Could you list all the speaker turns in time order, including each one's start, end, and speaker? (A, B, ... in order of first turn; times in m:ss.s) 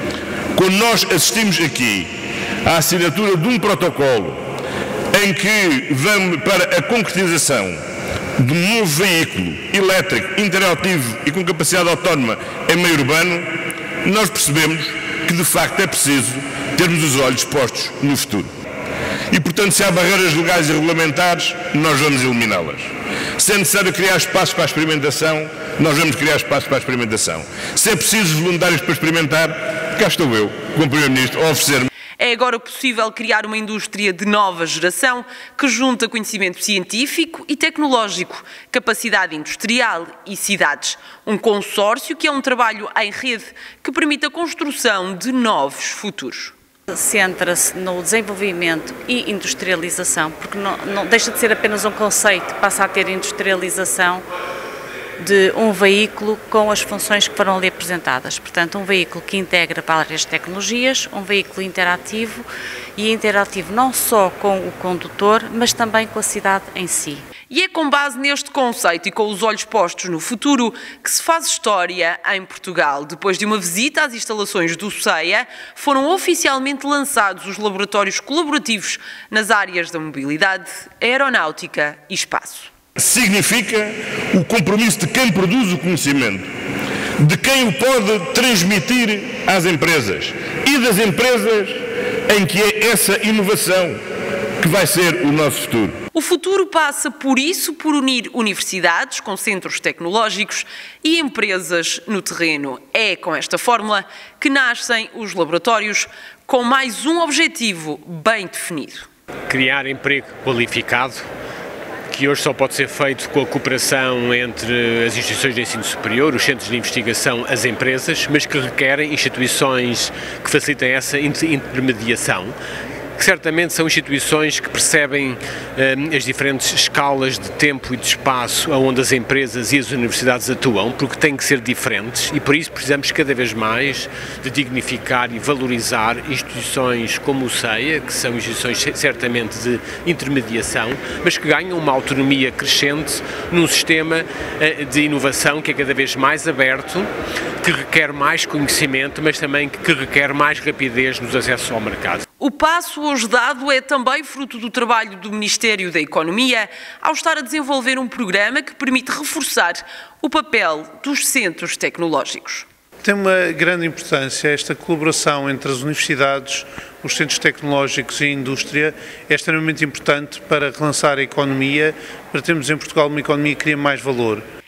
0:00.5-0:02.1 A
0:02.6-0:04.4 A
0:05.1-0:07.8 A
0:08.4-0:13.5 A
0:14.0-0:18.5 A
0:19.3-0:31.9 A
0:32.2-0:46.5 B
0:46.9-0:54.2 C
0:55.2-1:07.3 C
1:07.5-1:22.7 B
1:23.0-1:26.5 A
1:27.2-1:34.0 A
1:34.6-1:35.9 A
1:36.1-1:49.1 B
1:49.5-1:51.3 D
1:52.1-2:02.6 D
2:03.2-2:27.1 D
2:27.6-2:32.2 D
2:32.4-2:42.7 B
2:43.1-2:54.4 E